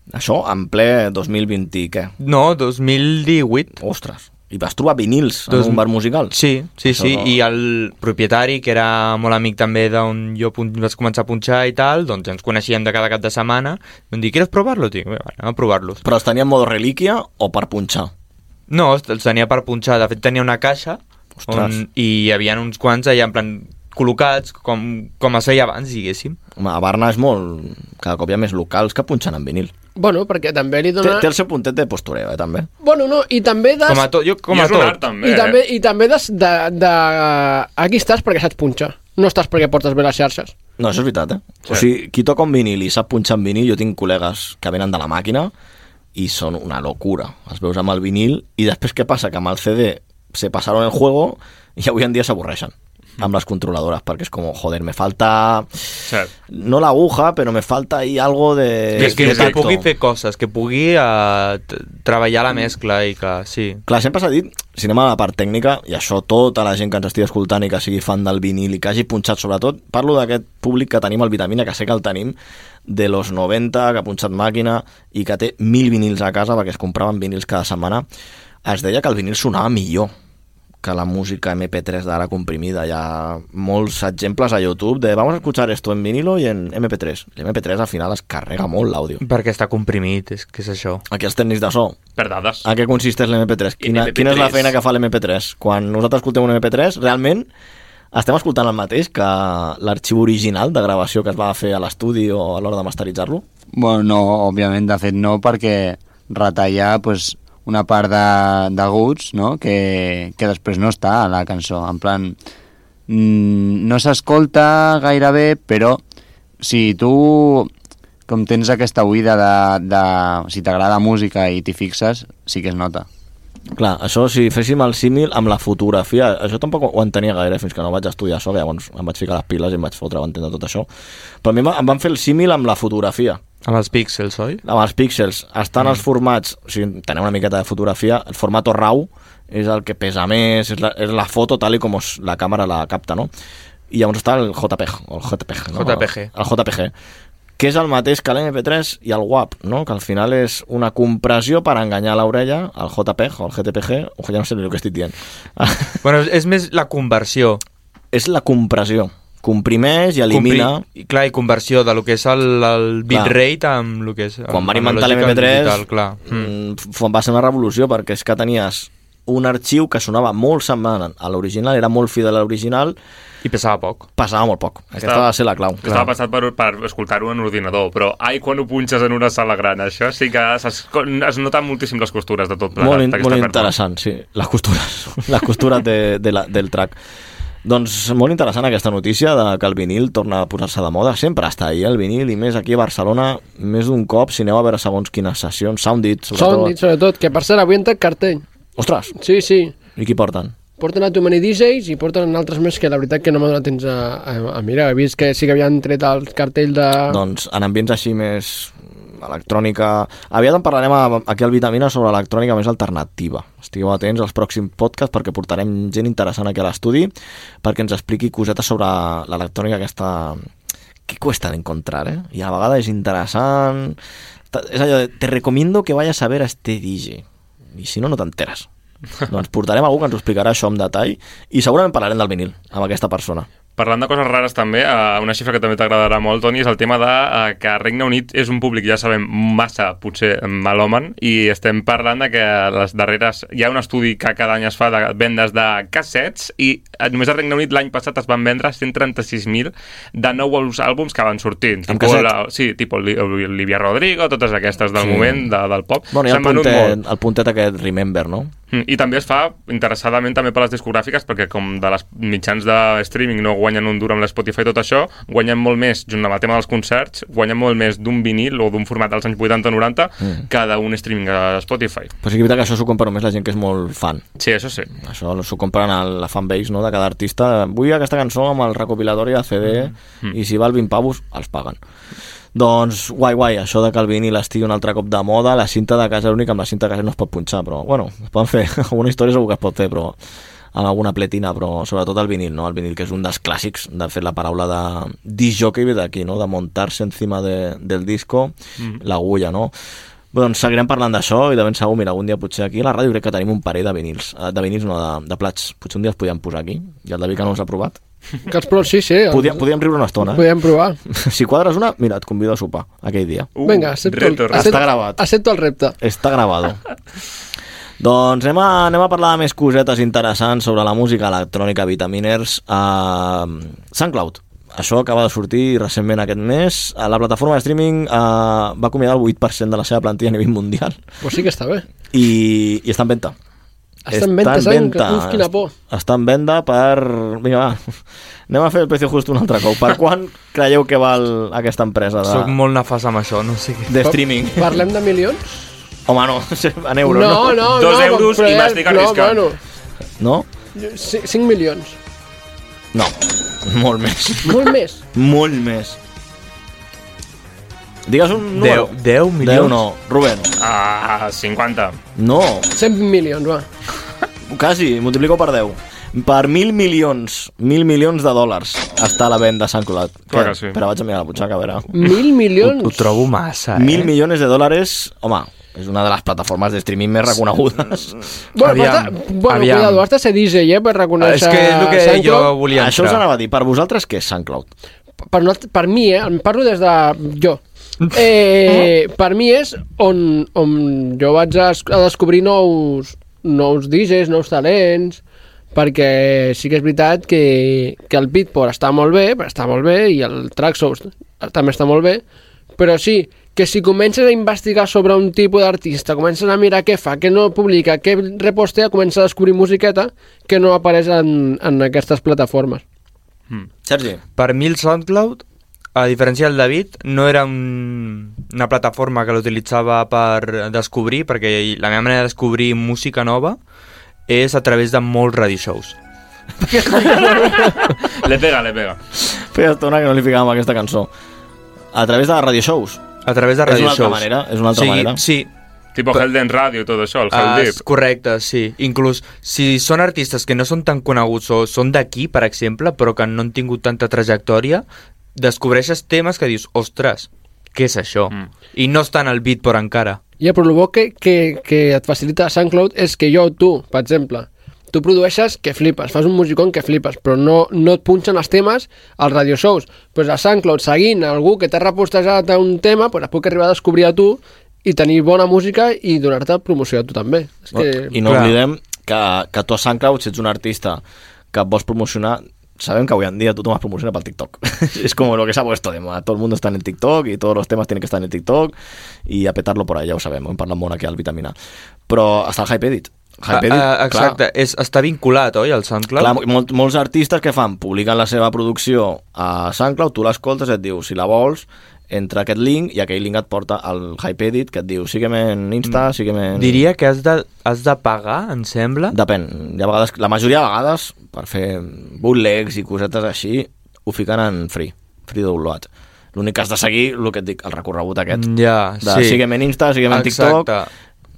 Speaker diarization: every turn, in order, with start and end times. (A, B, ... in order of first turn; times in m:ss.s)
0:00.1-0:02.1 A
0:02.2-0:03.8 B
0:03.8-0:07.4 A
0:05.5-0:16.0 B
0:16.0-0:18.1 A
0:18.7-0:26.4 B
0:21.4-0:21.8 A
0:26.6-0:29.7 A
0:30.0-0:31.3 C
0:31.0-0:32.7 A
0:32.8-0:34.1 C
0:33.9-0:35.0 B
0:34.5-0:35.6 D
0:35.2-0:40.5 C
0:40.8-0:45.5 A
0:46.2-0:55.8 A
0:56.5-0:59.8 A
0:59.0-1:03.8 B
0:59.0-0:59.7 D
1:03.9-1:18.0 A
1:18.6-1:20.1 A
1:20.8-1:29.2 A
1:29.2-1:31.0 B
1:31.1-1:32.0 A
1:32.2-1:32.6 D
1:32.6-1:37.5 A
1:33.8-1:34.7 D
1:38.1-1:43.4 A
1:43.7-1:52.4 E
1:53.1-1:56.0 E
1:56.6-1:57.7 E
1:58.3-2:03.1 E
2:03.7-2:10.9 A
2:11.4-2:13.4 A
2:13.6-2:14.6 B
2:14.6-2:23.3 A
2:23.9-2:26.9 A
2:25.7-2:26.3 B
2:27.6-2:36.0 A
2:36.0-2:37.6 B
2:38.1-2:40.8 A
2:40.3-2:46.5 B
2:43.1-2:43.4 A
2:44.5-2:53.0 A
2:53.4-2:54.1 B
2:54.2-2:56.1 A
2:55.0-2:55.3 D
2:55.8-3:03.7 D
3:02.8-3:07.0 A
3:07.6-3:16.8 A
3:16.4-3:18.4 C
3:18.8-3:19.1 A
3:19.2-3:19.7 C
3:20.0-3:20.5 A
3:20.8-3:27.2 C
3:27.1-3:40.4 A
3:41.1-3:44.0 A
3:44.5-3:47.2 A
3:47.8-3:48.7 A
3:49.2-3:53.5 A
3:53.8-4:17.0 D
4:11.9-4:12.3 A
4:15.0-4:15.5 A
4:16.1-4:18.5 A
4:18.7-4:32.1 D
4:32.2-4:34.2 A
4:34.4-4:34.9 D
4:35.0-4:41.8 A
4:42.6-4:50.2 A
4:50.7-4:59.7 A
5:00.3-5:08.0 A
5:08.5-5:09.6 C
5:09.3-5:10.5 A
5:10.2-5:11.0 C
5:11.1-5:13.5 A
5:13.6-5:14.8 D
5:13.6-5:16.0 C
5:14.5-5:15.2 A
5:16.0-5:16.8 A
5:18.0-5:31.0 A
5:31.2-5:31.8 C
5:32.1-5:33.4 A
5:34.1-5:35.7 C
5:34.1-5:37.9 A
5:38.5-5:42.5 A
5:42.2-5:44.0 B
5:43.9-5:44.8 A
5:44.6-5:45.6 C
5:46.1-5:47.7 A
5:47.0-5:49.6 C
5:47.7-5:49.4 D
5:50.2-5:50.5 A
5:50.8-5:52.0 C
5:52.9-5:56.0 A
5:54.4-5:55.0 C
5:58.1-6:00.5 A
5:58.6-5:59.8 B
6:00.6-6:02.0 D
6:02.2-6:02.7 A
6:02.8-6:03.7 C
6:04.5-6:11.9 A
6:10.3-6:10.8 D
6:11.9-6:13.1 C
6:12.6-6:14.1 B
6:13.8-6:18.2 A
6:18.6-6:22.5 C
6:18.6-6:20.0 B
6:21.2-6:23.2 B
6:22.7-6:24.7 A
6:25.3-6:27.6 C
6:28.1-6:35.2 C
6:35.7-6:42.2 C
6:42.8-6:52.8 C
6:53.8-6:54.2 A
6:54.4-6:55.4 B
6:56.0-7:03.6 B
7:04.3-7:06.0 B
7:06.6-7:08.0 A
7:07.3-7:09.0 D
7:09.2-7:11.1 A
7:11.9-7:13.0 A
7:13.2-7:15.5 B
7:13.6-7:15.2 A
7:16.0-7:17.8 D
7:17.3-7:24.8 B
7:25.4-7:30.2 B
7:30.4-7:48.1 C
7:47.7-7:51.0 A
7:48.2-7:48.6 B
7:51.5-7:58.7 A
7:59.3-8:01.6 A
8:02.1-8:04.4 A
8:03.5-8:06.4 B
8:06.2-8:16.8 A
8:16.6-8:19.2 B
8:19.1-8:28.5 A
8:28.3-8:29.4 B
8:29.0-8:30.7 A
8:30.1-8:30.9 B